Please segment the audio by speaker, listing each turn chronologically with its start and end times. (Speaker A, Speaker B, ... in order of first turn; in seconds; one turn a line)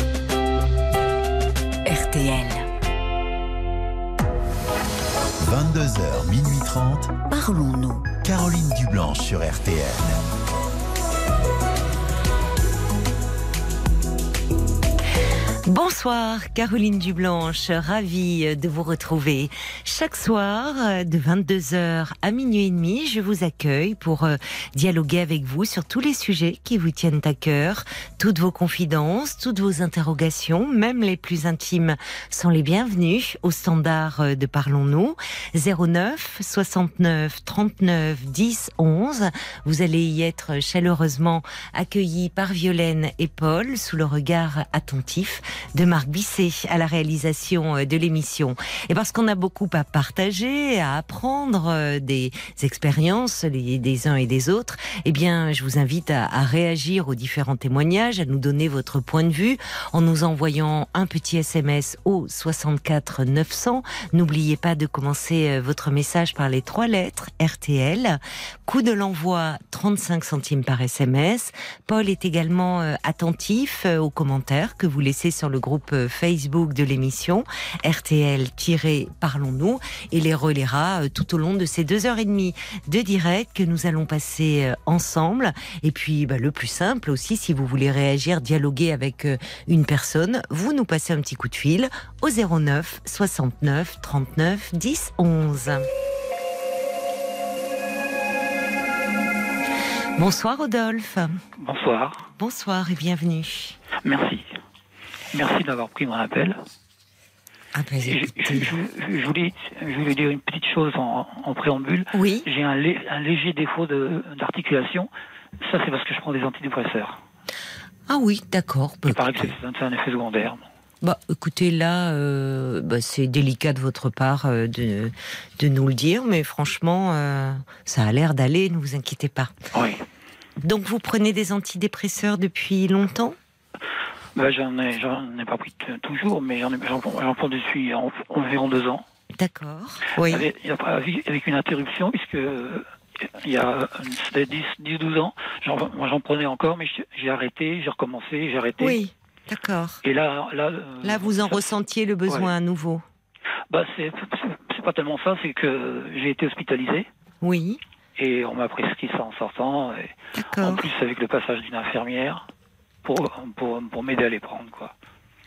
Speaker A: 1.9-2.7
Speaker B: 5.4-7.1
Speaker A: 7.3-8.1
Speaker B: 8.2-10.2
Speaker A: 15.7-95.9
Speaker A: 100.2-101.4
Speaker C: 101.6-102.3
Speaker A: 102.4-103.8
Speaker C: 104.0-104.5
Speaker C: 105.3-106.6
Speaker A: 107.8-108.7
Speaker C: 108.0-115.1
Speaker A: 112.1-112.5
Speaker C: 115.6-117.2
Speaker A: 118.1-119.5
Speaker C: 119.1-120.7
Speaker A: 121.0-129.6
Speaker C: 129.7-130.1
Speaker A: 130.6-133.4
Speaker C: 134.4-139.1
Speaker A: 139.4-140.5
Speaker C: 140.2-149.0
Speaker A: 148.8-150.0
Speaker C: 150.0-151.8
Speaker A: 151.0-153.1
Speaker C: 152.3-152.5
Speaker C: 153.7-157.1
Speaker A: 157.4-157.8
Speaker C: 158.2-162.5
Speaker A: 160.3-160.9
Speaker C: 163.0-164.9